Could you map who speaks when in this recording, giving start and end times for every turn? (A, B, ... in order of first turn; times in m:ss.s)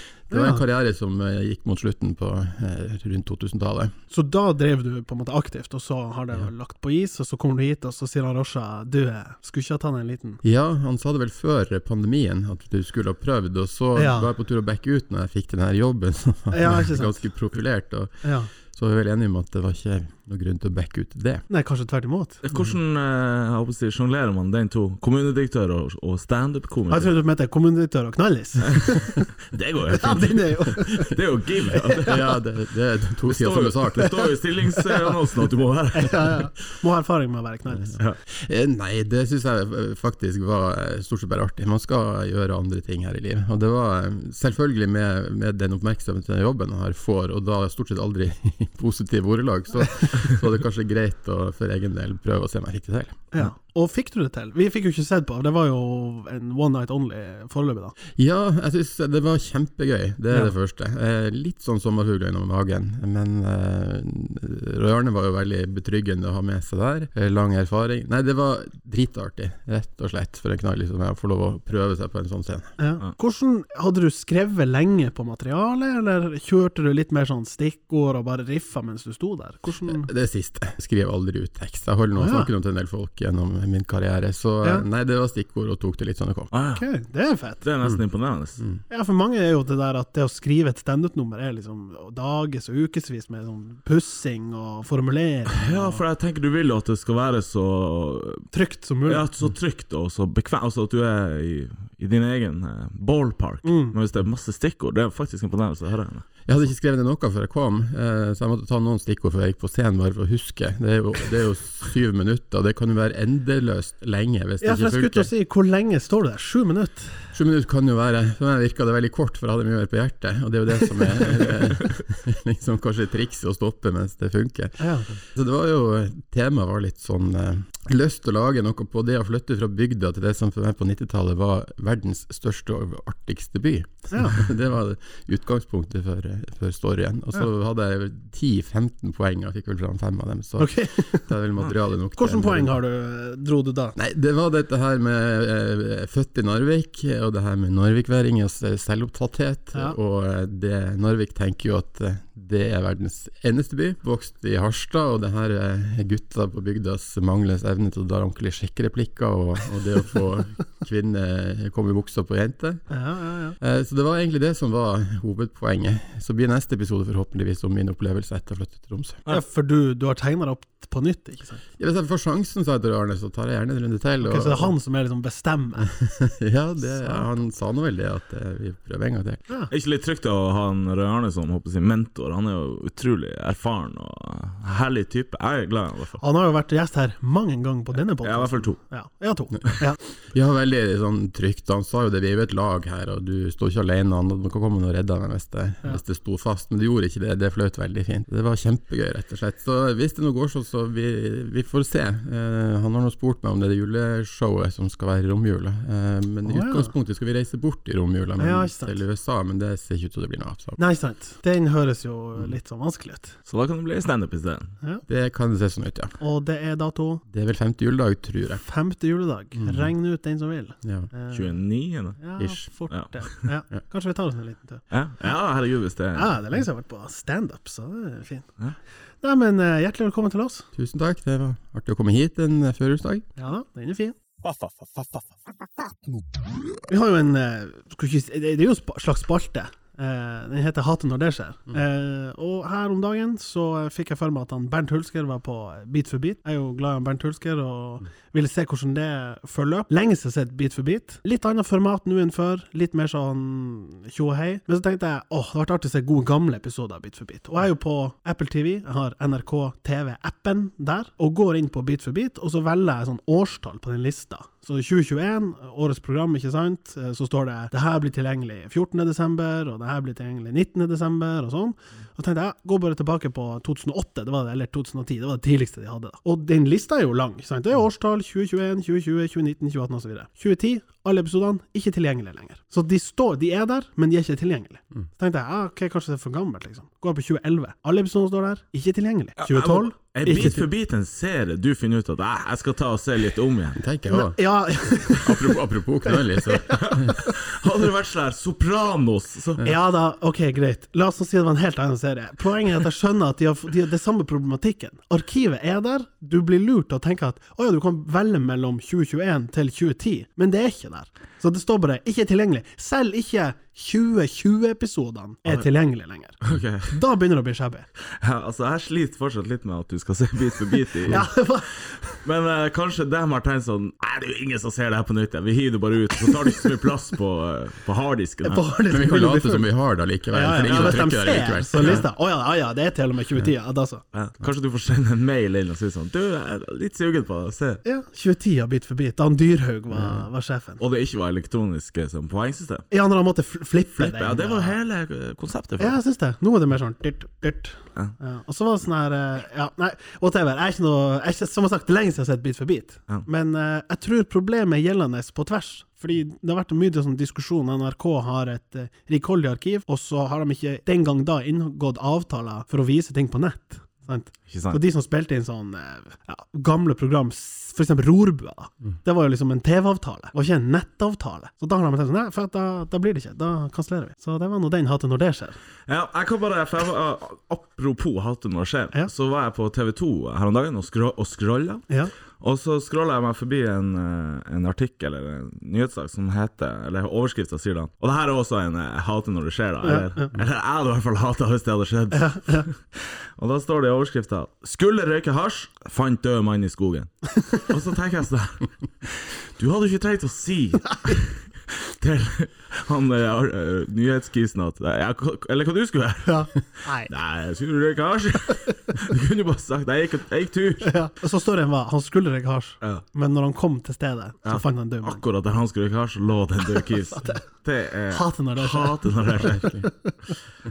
0:00.3-0:03.9 A
0:00.3-0:00.6 B
0:04.1-0:10.4 B
0:10.4-0:21.4 A
0:13.9-0:14.3 B
0:16.5-0:17.2 B
0:18.2-0:18.5 B
0:21.5-0:22.5 B
0:22.4-0:27.1 C
0:26.9-0:29.2 B
0:28.6-0:28.9 C
0:29.4-0:32.2 C
0:29.9-0:31.1 B
0:31.7-0:32.1 B
0:32.0-0:34.1 A
0:33.3-0:36.4 C
0:35.9-0:38.0 B
0:38.4-0:53.3 A
0:53.3-0:57.9 B
0:58.2-1:12.7 A
1:12.8-1:20.1 B
1:19.8-1:26.5 A
1:22.2-1:22.5 B
1:26.5-1:26.8 C
1:26.7-1:27.6 B
1:27.6-1:28.6 C
1:28.9-1:36.0 B
1:35.5-1:38.5 C
1:38.5-1:39.3 B
1:39.0-1:46.5 C
1:43.6-1:43.9 B
1:46.5-1:55.3 A
1:54.6-1:57.3 B
1:57.3-2:22.7 A
2:04.8-2:05.2 B
2:14.1-2:14.5 B
2:20.6-2:21.3 B
2:22.2-2:23.9 B
2:23.9-2:42.8 A
2:42.9-2:43.6 B
2:43.6-2:49.2 A
2:49.3-2:51.6 B
2:51.8-2:54.7 A
2:54.2-2:55.9 B
2:55.8-2:59.4 A
2:56.8-2:57.3 B
2:59.7-3:06.2 C
3:06.2-3:10.0 B
3:08.2-3:08.8 C
3:10.3-3:30.8 A
3:26.4-3:26.9 B
3:28.4-3:29.0 B
3:30.8-3:33.3 B
3:33.4-3:34.7 C
3:35.1-3:36.1 A
3:36.2-3:37.2 B
3:37.3-3:38.6 A
3:38.6-3:41.6 B
3:39.6-3:39.9 A
3:40.8-3:41.1 A
3:41.3-3:42.2 C
3:42.2-3:44.8 B
3:42.9-3:43.3 C
3:44.9-3:46.3 C
3:46.1-3:48.5 B
3:49.2-3:50.6 B
3:50.7-3:53.3 A
3:53.4-3:54.2 B
3:54.4-3:55.2 C
3:56.9-4:50.6 B
4:49.4-4:53.8 C
4:53.8-4:54.4 A
4:54.1-4:57.3 B
4:55.1-4:57.2 A
4:56.7-4:59.6 C
4:59.6-5:17.9 B
5:16.4-5:16.9 C
5:18.2-5:21.3 C
5:21.1-5:22.0 B
5:22.2-5:28.6 C
5:28.4-5:29.7 B
5:28.9-5:32.1 A
5:30.3-5:34.0 B
5:30.6-5:30.9 C
5:34.1-5:37.8 C
5:37.8-5:40.8 B
5:40.8-5:42.9 C
5:42.9-5:44.8 B
5:44.0-5:46.0 C
5:45.8-6:15.6 B
6:04.5-6:04.8 C
6:15.9-6:21.9 C
6:22.4-6:32.8 C
6:29.8-6:30.3 B
6:32.1-6:32.7 B
6:33.4-6:41.4 C
6:42.0-6:50.9 C
6:46.2-6:47.1 B
6:50.8-6:55.2 B
6:54.4-6:59.7 C
6:57.1-6:57.4 B
6:58.1-7:00.1 B
6:59.5-6:59.9 A